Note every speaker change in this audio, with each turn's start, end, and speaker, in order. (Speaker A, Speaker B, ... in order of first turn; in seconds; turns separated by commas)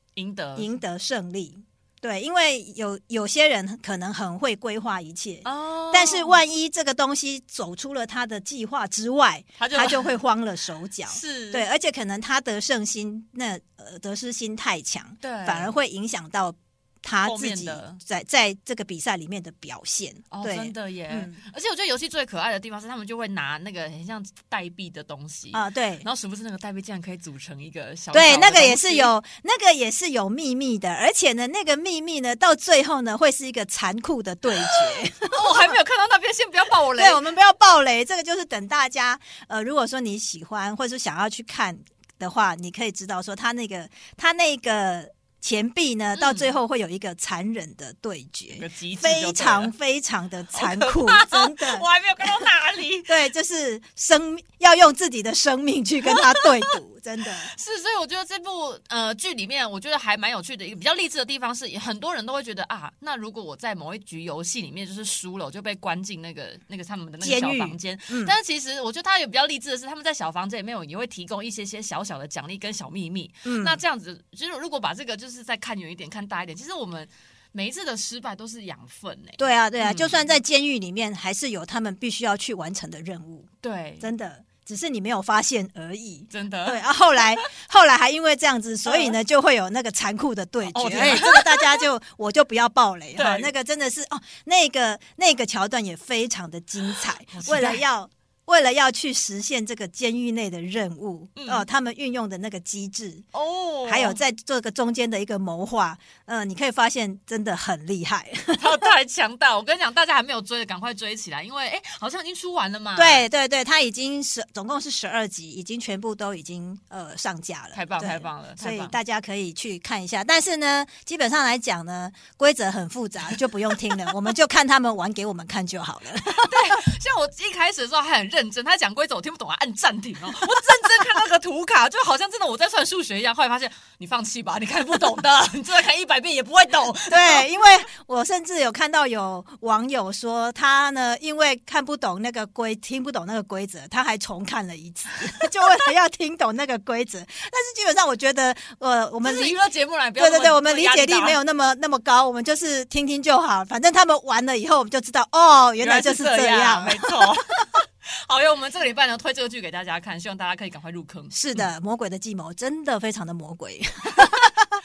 Speaker A: 0.2-0.7, Speaker B: 0.6-21.4, Speaker A: 5.5-6.4, Speaker A: 9.6-10.1, Speaker A: 11.1-11.7, Speaker A: 15.2-15.7, Speaker A: 17.2-18.0, Speaker A: 20.3-29.1, Speaker B: 25.5-26.1, Speaker B: 28.1-35.7, Speaker A: 35.3-37.2, Speaker B: 37.0-52.5, Speaker A: 46.2-46.5, Speaker A: 48.5-49.7, Speaker A: 50.5-53.1, Speaker B: 53.1-57.5, Speaker A: 57.5-80.4, Speaker B: 67.2-68.3, Speaker B: 73.5-73.8, Speaker B: 79.4-83.5, Speaker A: 83.6-84.1, Speaker B: 84.0-103.2, Speaker A: 86.3-86.8, Speaker A: 88.8-89.2, Speaker A: 90.7-91.8, Speaker A: 93.2-93.5, Speaker A: 97.3-97.8, Speaker A: 101.4-101.7, Speaker A: 103.3-104.2, Speaker B: 103.9-108.8, Speaker A: 108.6-113.3, Speaker B: 113.0-126.5, Speaker A: 117.7-119.0, Speaker A: 126.3-137.5, Speaker B: 137.1-149.6, Speaker A: 149.2-151.4, Speaker B: 150.2-157.4, Speaker A: 155.8-161.6, Speaker B: 161.3-164.7, Speaker A: 164.2-164.5